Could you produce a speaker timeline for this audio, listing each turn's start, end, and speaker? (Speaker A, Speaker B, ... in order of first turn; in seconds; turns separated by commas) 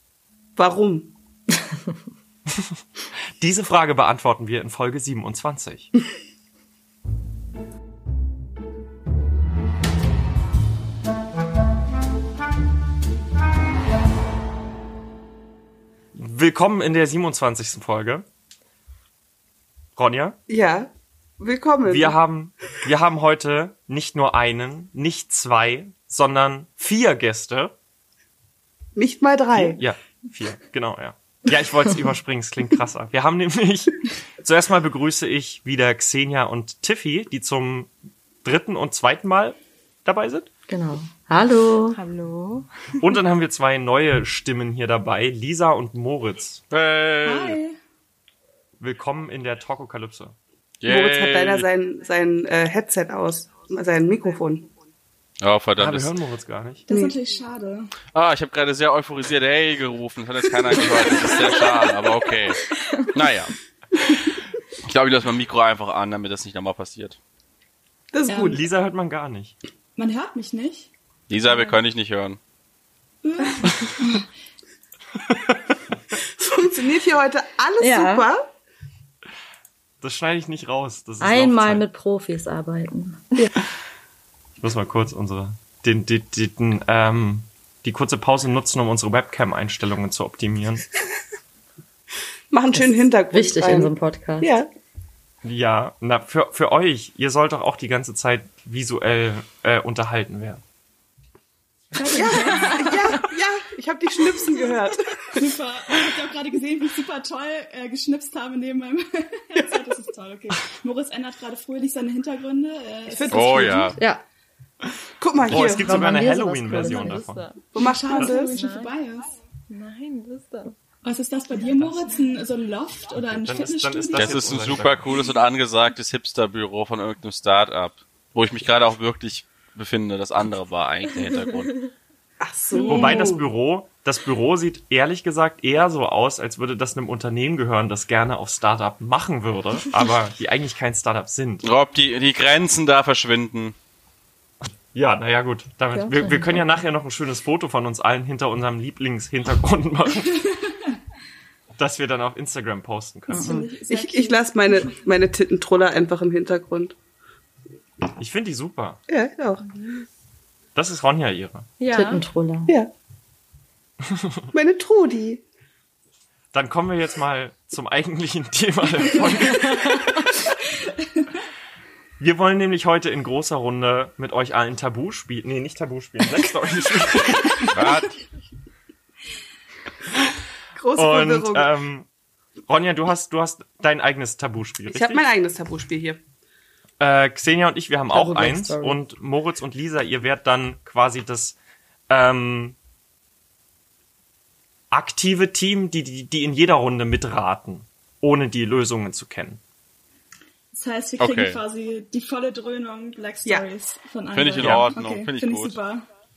Speaker A: 0.6-1.1, Speaker B: 3.4-5.9, Speaker B: 16.1-18.2, Speaker B: 20.0-20.4, Speaker A: 20.5-22.1, Speaker B: 21.9-27.7, Speaker A: 28.9-29.8, Speaker B: 29.6-37.9, Speaker B: 38.4-40.5, Speaker C: 40.7-42.0, Speaker D: 41.9-42.7, Speaker B: 43.0-46.6, Speaker E: 46.7-47.6, Speaker F: 47.2-47.8, Speaker B: 48.8-50.3, Speaker E: 50.8-51.6, Speaker A: 50.9-54.7, Speaker E: 55.4-56.1, Speaker B: 55.8-56.9, Speaker F: 56.9-57.9, Speaker A: 56.9-57.1, Speaker E: 58.1-63.5, Speaker E: 64.8-67.2, Speaker A: 68.1-68.6, Speaker F: 68.3-68.5, Speaker B: 68.4-69.5, Speaker F: 70.0-70.9, Speaker E: 71.3-72.4, Speaker F: 73.2-74.2, Speaker A: 76.3-78.5, Speaker C: 77.8-78.2, Speaker B: 80.0-81.8, Speaker C: 81.2-83.3, Speaker B: 84.6-90.8, Speaker A: 92.5-94.7, Speaker C: 93.3-94.5, Speaker B: 95.4-100.6, Speaker F: 101.9-103.2, Speaker A: 102.1-105.4, Speaker F: 105.3-113.8, Speaker A: 113.1-113.9, Speaker E: 113.3-114.0, Speaker C: 114.0-114.2, Speaker A: 115.2-116.0, Speaker B: 115.5-117.5, Speaker C: 115.5-117.2, Speaker D: 116.7-118.9, Speaker A: 117.7-118.6, Speaker F: 117.8-119.3, Speaker D: 119.7-120.8, Speaker F: 121.0-124.5, Speaker B: 123.2-125.1, Speaker E: 124.1-131.8, Speaker A: 132.4-133.4, Speaker B: 132.8-141.7, Speaker F: 132.8-133.3, Speaker E: 141.6-143.7, Speaker B: 144.9-150.5, Speaker C: 145.9-146.6, Speaker B: 151.8-153.6, Speaker F: 153.3-154.9, Speaker A: 153.4-156.9, Speaker B: 158.2-159.0, Speaker A: 159.1-159.6, Speaker D: 159.6-160.1, Speaker B: 160.7-161.7, Speaker D: 161.8-162.2, Speaker C: 161.9-162.7, Speaker B: 164.1-164.4, Speaker A: 164.5-165.4, Speaker B: 166.5-170.3, Speaker F: 169.0-169.4, Speaker C: 169.6-169.9, Speaker F: 170.8-171.2, Speaker B: 172.2-177.9, Speaker E: 177.7-178.1, Speaker A: 180.7-181.7, Speaker B: 180.9-182.1, Speaker B: 182.7-185.2, Speaker A: 184.9-186.2, Speaker B: 187.0-191.6, Speaker C: 188.1-189.0, Speaker B: 192.1-192.8, Speaker B: 194.9-199.6, Speaker F: 200.7-206.0, Speaker E: 201.2-201.6, Speaker E: 204.3-205.8, Speaker B: 204.6-204.9